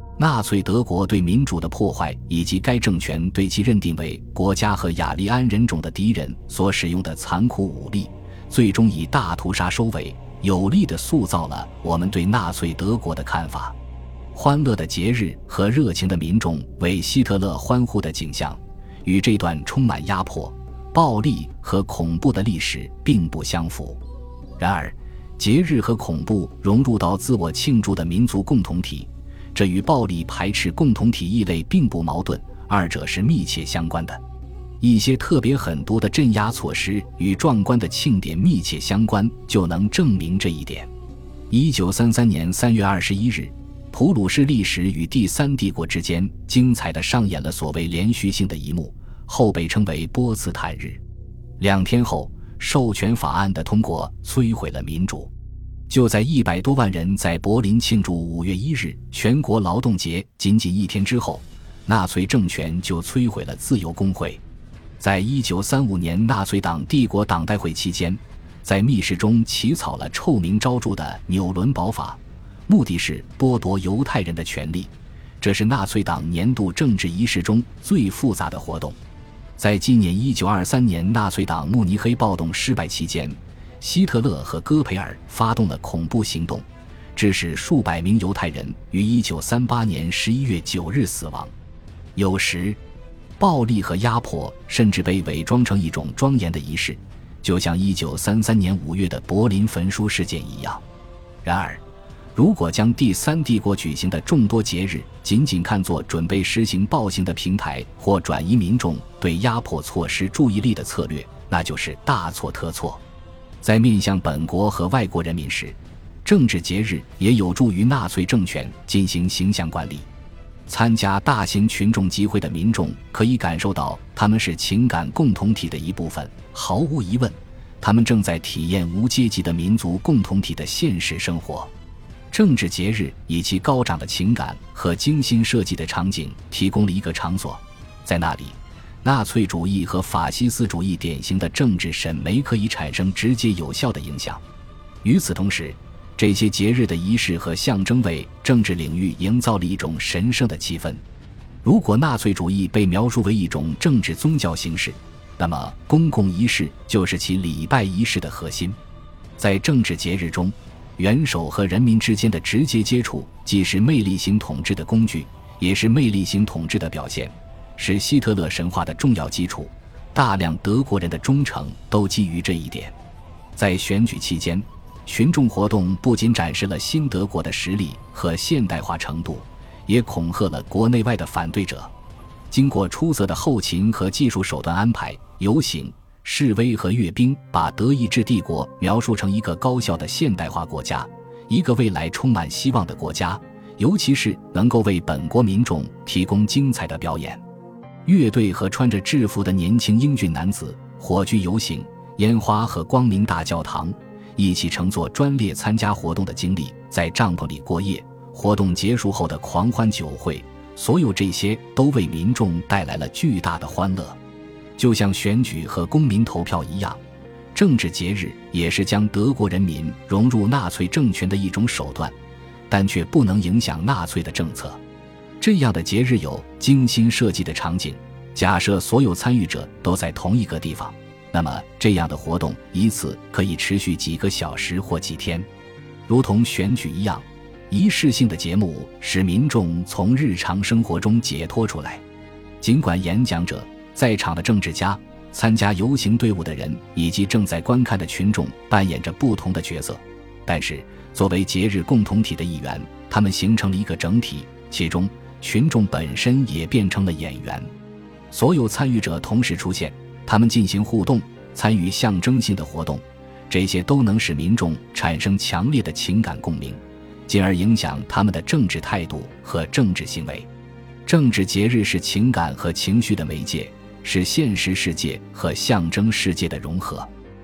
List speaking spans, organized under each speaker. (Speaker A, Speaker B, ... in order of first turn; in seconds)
Speaker A: 0.2-13.7, 14.3-24.0, 24.6-34.2, 34.8-40.9, 41.5-51.0, 51.6-55.3, 55.9-64.4, 65.0-79.0, 79.6-91.5, 92.2-92.8, 93.4-100.8, 101.4-101.8, 102.3-113.0, 113.6-120.1, 120.7-131.7, 132.3-144.4, 145.0-151.0, 151.6-158.8, 159.4-172.9, 173.6-181.9, 182.5-197.4, 198.0-214.2, 214.8-217.0, 217.5-222.1, 222.7-224.8, 225.4-235.5, 236.1-242.0, 242.6-257.7, 258.3-270.5, 271.1-277.1